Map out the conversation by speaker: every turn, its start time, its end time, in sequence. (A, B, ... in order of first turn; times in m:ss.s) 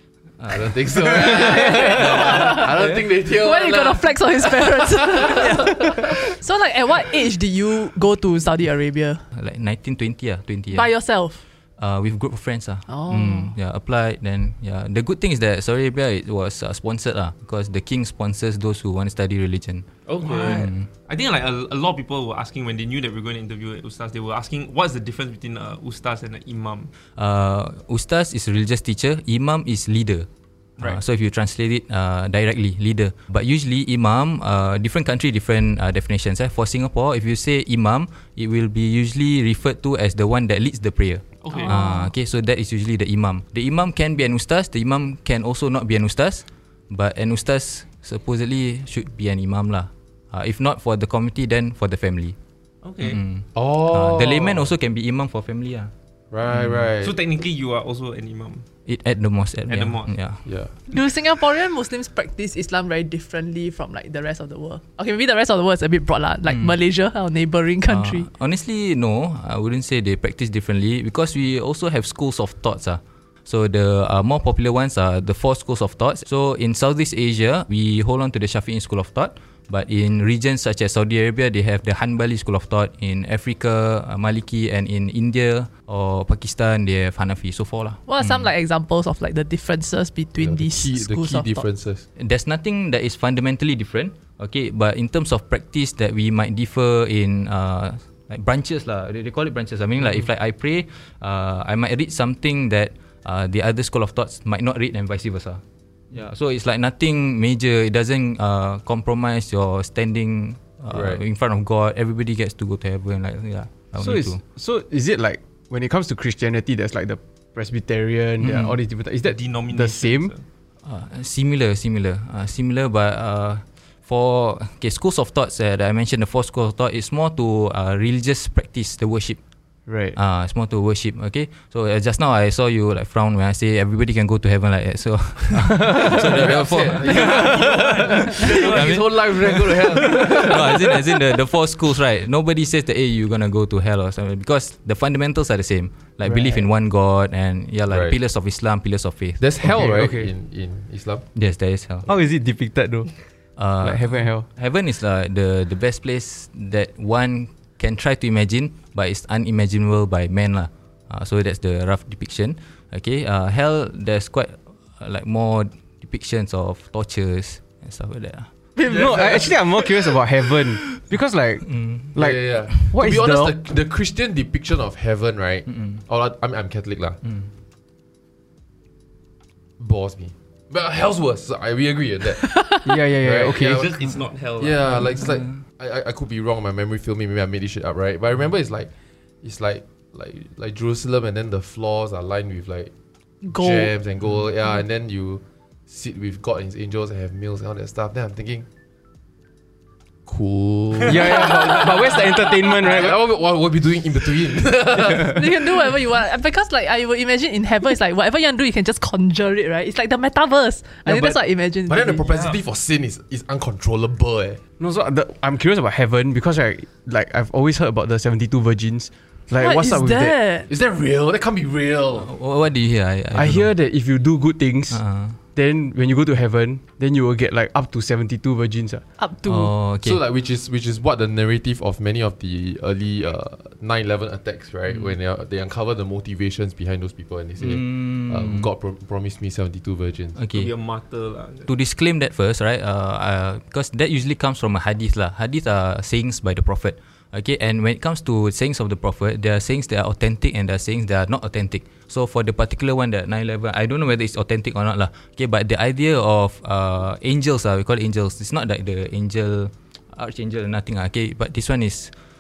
0:00.4-0:03.0 A
0:00.5-0:05.4 B
0:02.0-0:02.7 C
0:03.3-0:09.2 C
0:09.3-0:10.9 A
0:10.7-0:11.4 C
0:11.8-0:20.9 A
0:12.9-0:13.5 C
0:20.1-0:26.9 D
0:20.2-0:20.6 E
0:27.2-0:30.3 A
0:30.8-0:52.4 A
0:41.4-0:41.8 D
0:41.5-0:42.1 C
0:52.8-0:53.2 D
0:53.0-0:55.9 A
0:53.5-0:54.7 B
0:56.3-0:57.1 B
0:56.5-0:56.8 A
0:57.0-0:58.6 D
0:58.8-1:00.4 A
0:59.7-1:00.2 D
1:00.4-1:00.7 B
1:00.9-1:08.3 C
1:06.5-1:06.7 A
1:07.9-1:28.4 A
1:28.1-1:31.6 C
1:30.4-1:32.0 B
1:32.2-1:54.4 A
1:50.9-1:51.2 B
1:54.0-2:00.3 E
1:58.4-1:58.8 A
1:59.2-2:00.4 D
2:00.8-2:09.4 A
2:09.9-2:10.2 E
2:10.1-2:17.4 A
2:15.6-2:18.6 E
2:16.2-2:20.8 B
2:17.0-2:19.0 D
2:18.3-2:29.7 A
2:20.0-2:20.5 E
2:26.2-2:26.6 E
2:27.9-2:28.2 B
2:29.4-2:31.2 B
2:29.6-2:30.3 E
2:31.3-2:32.1 A
2:32.0-2:33.1 E
2:33.6-2:48.5 A
2:33.8-2:34.5 E
2:48.8-2:53.6 E
2:48.9-2:49.5 D
2:51.6-2:52.1 A
2:52.2-2:57.2 B
2:55.7-2:56.0 A
2:57.2-2:57.5 A
2:59.8-3:02.5 B
3:02.8-3:03.9 E
3:03.2-3:03.9 B
3:03.4-3:05.2 D
3:04.6-3:08.9 B
3:04.9-3:05.6 A
3:09.4-3:12.9 B
3:13.4-3:13.9 C
3:13.5-3:18.7 B
3:20.3-3:25.4 B
3:21.0-3:23.2 E
3:25.0-3:25.4 E
3:25.3-3:32.2 C
3:31.0-3:34.6 B
3:32.2-3:32.6 D
3:34.8-3:40.4 E
3:39.6-3:40.7 C
3:40.7-3:42.3 B
3:42.2-3:43.7 A
3:43.3-3:45.0 E
3:44.9-3:45.4 A
3:45.5-3:49.0 E
3:49.2-3:49.7 C
3:49.5-3:50.2 A
3:50.0-4:00.4 B
3:57.6-3:58.7 A
4:00.4-4:00.7 A
4:00.5-4:01.7 D
4:01.7-4:22.1 A